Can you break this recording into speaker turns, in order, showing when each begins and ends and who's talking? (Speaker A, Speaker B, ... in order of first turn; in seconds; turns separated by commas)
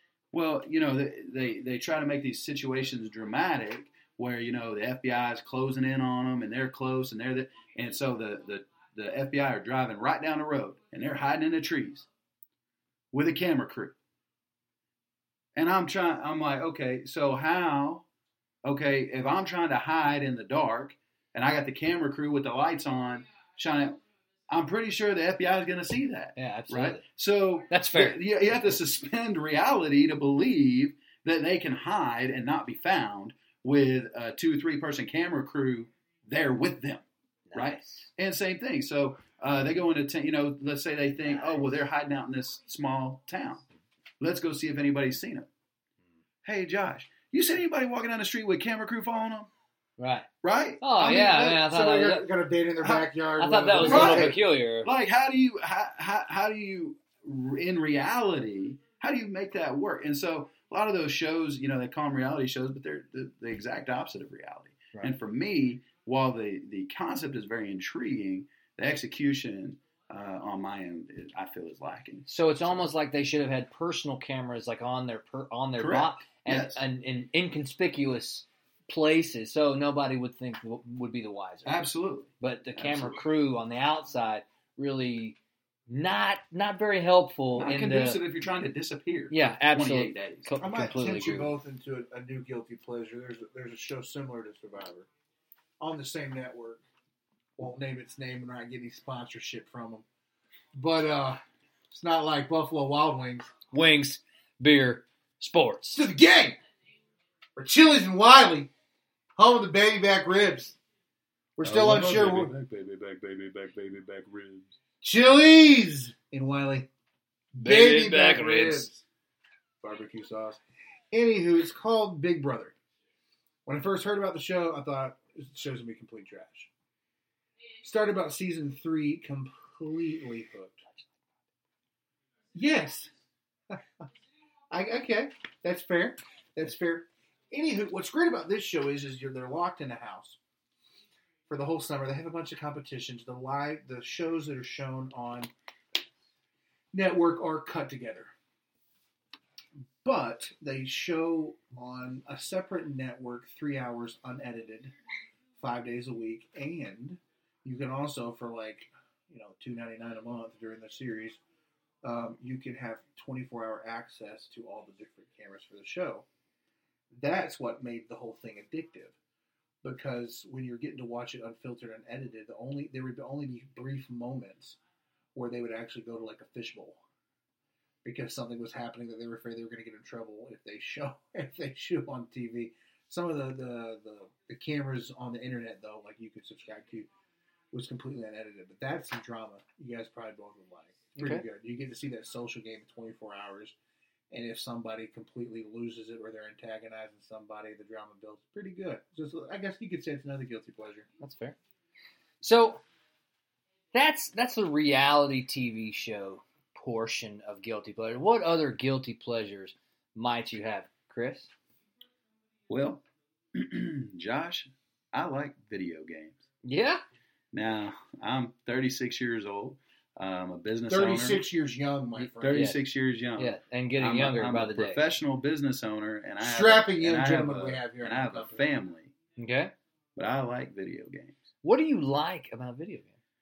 Speaker A: 0.3-12.1, Speaker A: 13.1-13.9, Speaker A: 15.6-18.0, Speaker A: 18.6-43.6, Speaker B: 26.4-27.0, Speaker B: 27.7-28.2, Speaker B: 37.5-38.1, Speaker A: 44.2-45.5, Speaker A: 46.4-49.5, Speaker B: 50.0-50.3, Speaker A: 50.4-50.8, Speaker B: 50.8-52.2, Speaker C: 50.9-54.4, Speaker A: 52.8-53.1, Speaker B: 53.4-54.9, Speaker A: 53.8-72.7, Speaker B: 72.3-81.8, Speaker A: 75.8-76.8, Speaker A: 81.7-83.2, Speaker B: 82.4-85.4, Speaker B: 85.9-88.2, Speaker A: 87.6-90.5, Speaker B: 89.3-91.5, Speaker C: 90.6-95.1, Speaker C: 95.8-96.8, Speaker C: 97.6-100.0, Speaker C: 100.7-101.4, Speaker C: 101.9-103.5, Speaker B: 103.7-106.0, Speaker C: 105.9-106.6, Speaker C: 107.6-108.7, Speaker C: 109.4-110.8, Speaker C: 111.6-112.5, Speaker A: 111.6-114.7, Speaker C: 115.0-116.9, Speaker C: 117.5-119.0, Speaker B: 117.6-118.9, Speaker C: 119.8-120.6, Speaker C: 121.1-122.7, Speaker C: 123.7-126.7, Speaker C: 127.8-130.8, Speaker C: 132.5-133.1, Speaker C: 133.7-134.0, Speaker C: 134.7-140.4, Speaker C: 141.5-145.5, Speaker C: 146.9-148.3, Speaker C: 150.0-154.9, Speaker C: 155.6-161.4, Speaker C: 162.0-166.2, Speaker C: 167.1-169.2, Speaker C: 169.8-174.8, Speaker C: 175.3-177.0, Speaker C: 178.0-187.1, Speaker C: 187.7-193.8, Speaker B: 191.2-191.4, Speaker C: 194.3-201.1, Speaker B: 201.2-201.6, Speaker B: 202.4-202.8, Speaker B: 203.9-211.5, Speaker A: 212.7-213.0, Speaker A: 213.5-216.4, Speaker B: 216.6-217.0, Speaker A: 217.5-221.4, Speaker C: 220.9-222.7, Speaker B: 222.2-222.8, Speaker A: 222.4-229.1, Speaker B: 223.4-225.0, Speaker C: 226.4-228.7, Speaker B: 229.4-229.7, Speaker A: 230.2-231.4, Speaker B: 231.6-233.2